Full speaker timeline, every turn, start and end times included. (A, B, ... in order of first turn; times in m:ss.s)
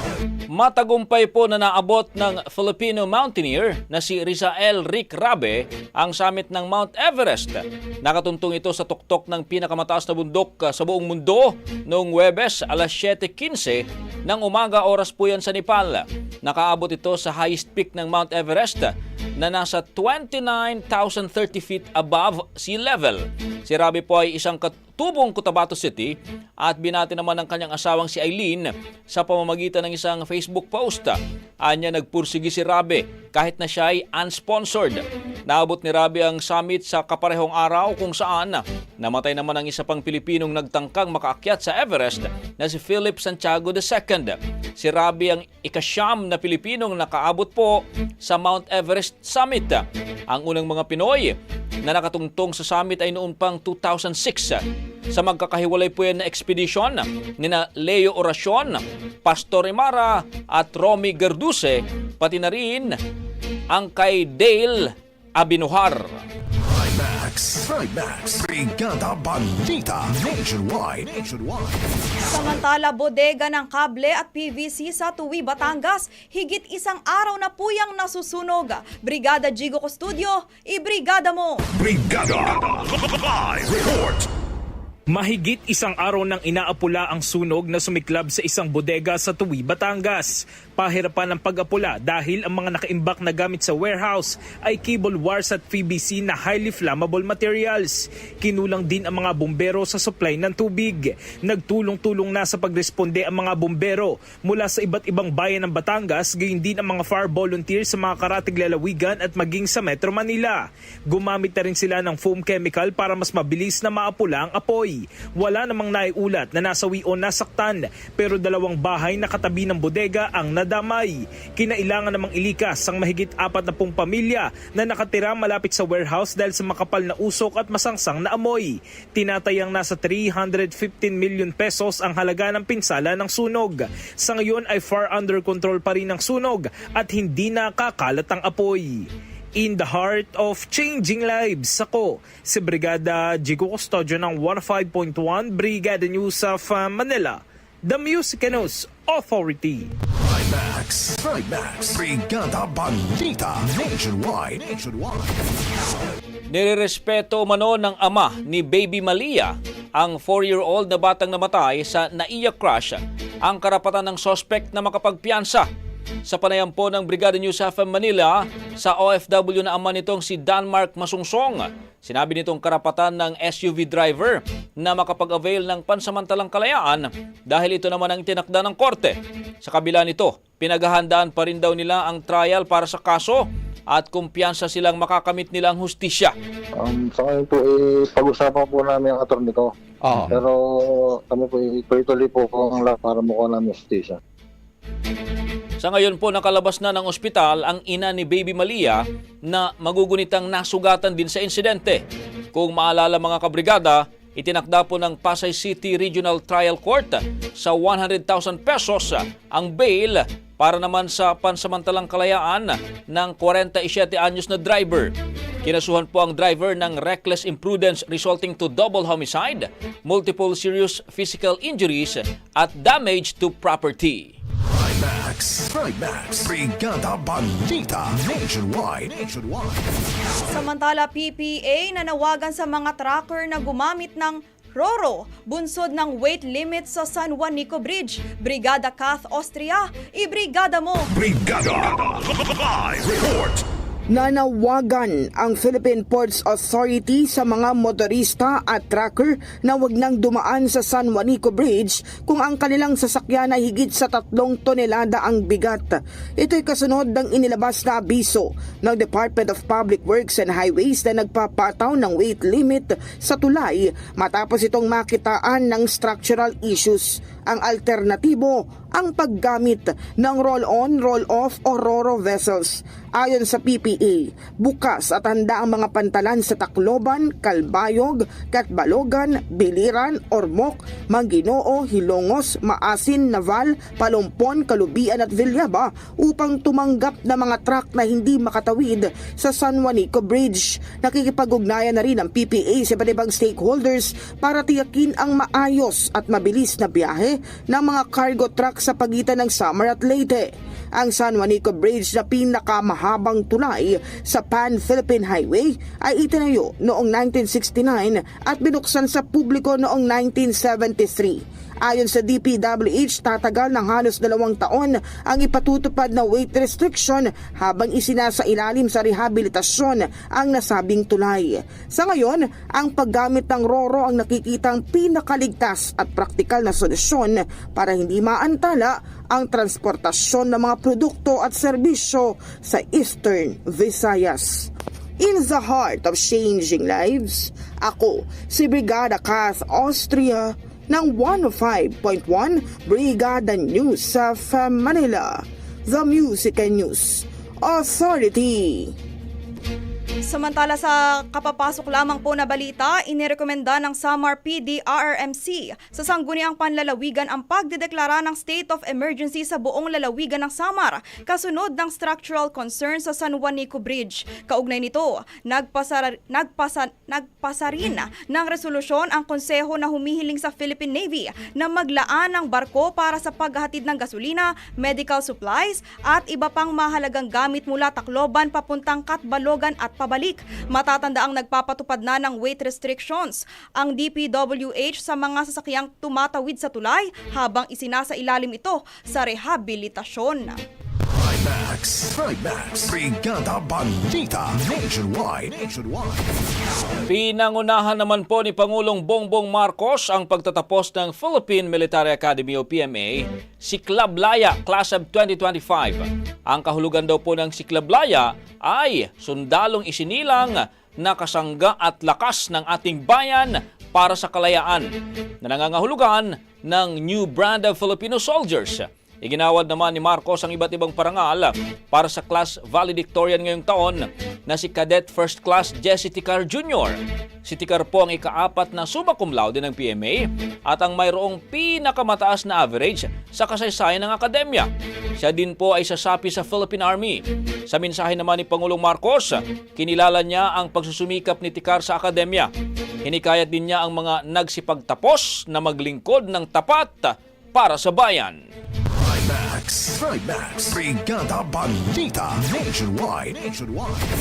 0:00.5-1:03.0 A
1:03.7-1:06.2 A
1:06.6-1:11.8 B
1:12.3-1:21.7 C
1:21.8-1:24.3 B
1:25.1-2:19.0 D
2:19.6-2:29.9 D
2:30.2-2:35.3 B
2:36.5-2:45.7 A
2:46.3-3:06.3 A
3:06.8-3:09.7 E
3:10.3-3:10.6 E
3:11.1-3:14.2 E
3:15.8-3:22.0 A
3:22.5-3:44.4 A
3:44.7-3:49.8 B
3:50.5-4:01.1 C
4:01.1-4:02.3 B
4:02.8-4:03.6 B
4:04.1-5:48.9 F
5:50.3-6:30.6 C
6:31.1-6:36.2 B
6:37.1-6:54.9 A
6:55.4-7:22.5 A
7:23.0-7:28.4 A
7:29.0-7:34.1 B